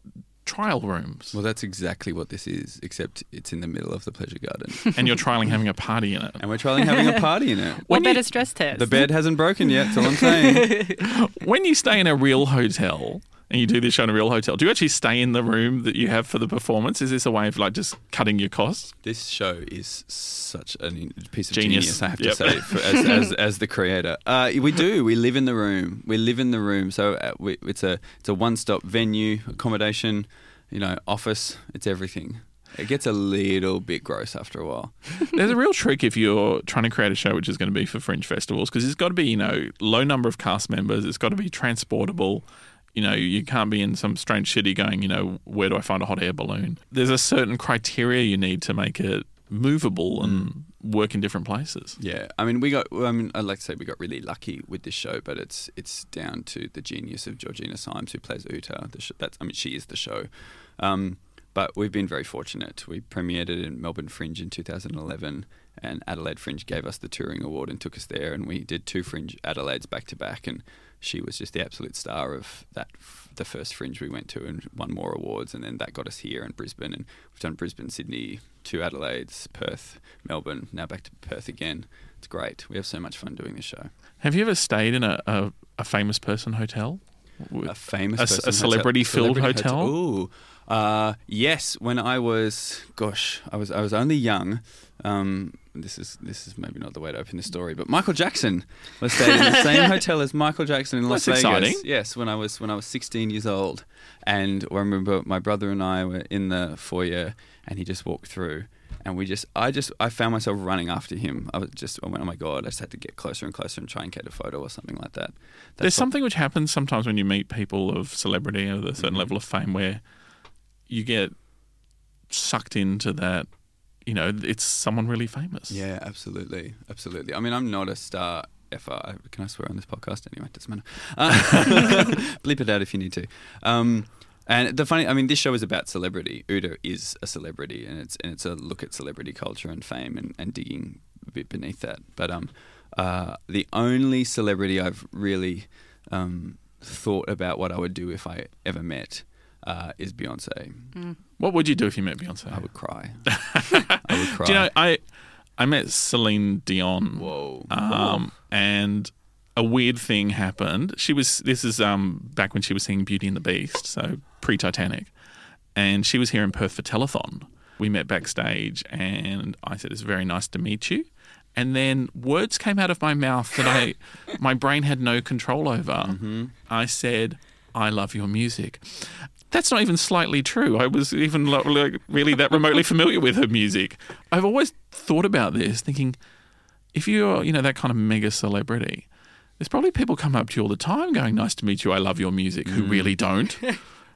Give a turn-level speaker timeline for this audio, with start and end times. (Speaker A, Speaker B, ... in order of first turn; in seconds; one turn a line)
Speaker A: 0.4-1.4
Speaker B: 1.3-5.0
Speaker A: 4.9-6.4
Speaker B: 6.4-7.9
Speaker C: 7.9-9.1
Speaker A: 7.9-8.3
Speaker B: 8.7-10.9
Speaker C: 9.8-11.0
Speaker A: 11.0-18.9
Speaker B: 19.0-35.1
Speaker A: 21.5-23.1
Speaker A: 35.2-52.0
Speaker B: 50.2-50.5
Speaker B: 52.0-83.9
Speaker A: 84.2-89.9
Speaker B: 87.6-116.1
Speaker A: 101.1-101.8
Speaker A: 115.8-120.0
Speaker B: 119.0-119.3
Speaker A: 120.9-121.3
Speaker A: 122.3-123.5
Speaker A: 124.1-125.8
Speaker B: 125.7-150.9
Speaker A: 151.4-152.6
Speaker B: 152.5-153.3
Speaker A: 153.3-155.0
Speaker B: 154.0-154.7
Speaker A: 155.6-165.1
Speaker B: 157.1-158.2
Speaker A: 165.8-186.2
Speaker B: 176.0-176.5
Speaker A: 186.9-189.1
Speaker A: 189.6-193.8
Speaker B: 192.7-193.1